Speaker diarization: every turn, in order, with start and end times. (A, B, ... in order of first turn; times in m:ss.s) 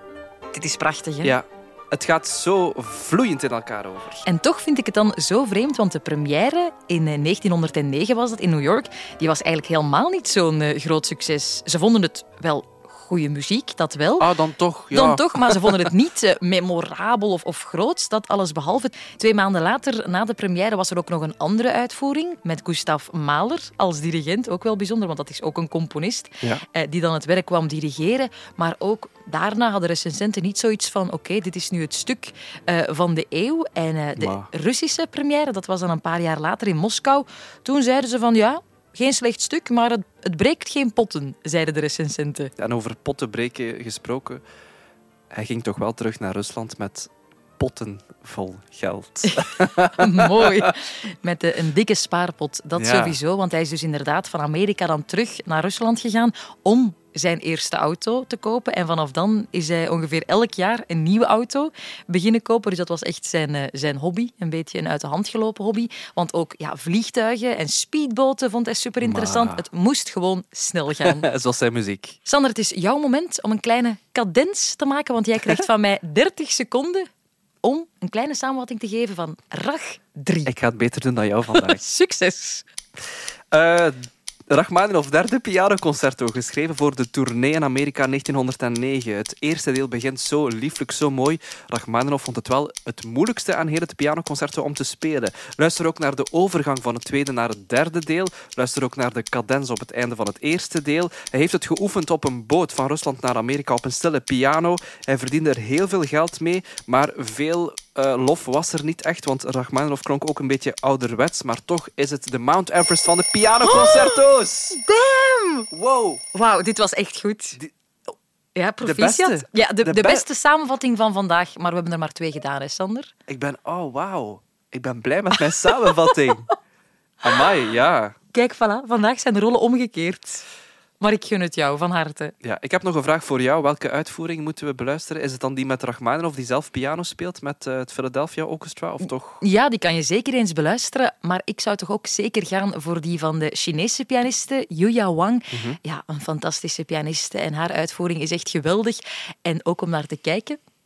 0:00.5-0:01.4 A
0:01.2-0:04.2 B
0:04.2-0:14.3 A
0:14.2-0:15.9 B
0:14.9-0:42.5 A
0:34.2-0:34.5 B
0:42.6-0:44.4 B
0:45.3-0:50.7 B
0:49.3-1:11.3 A
0:52.8-0:53.2 B
1:09.0-1:09.6 B
1:11.0-1:12.2 B
1:12.2-1:17.1 A
1:17.6-1:20.5 A
1:20.4-1:21.8 B
1:21.5-1:22.6 A
1:23.5-1:54.8 B
1:53.6-1:54.2 A
1:54.7-1:55.7 A
1:55.7-1:56.2 B
1:56.3-1:57.6 A
1:58.5-2:03.1 A
1:58.8-2:00.2 B
2:03.3-2:06.5 B
2:05.6-2:06.2 A
2:07.2-2:08.1 B
2:08.3-2:10.4 A
2:11.0-2:12.3 A
2:12.4-2:19.4 B
2:19.0-2:30.6 A
2:25.5-2:25.8 B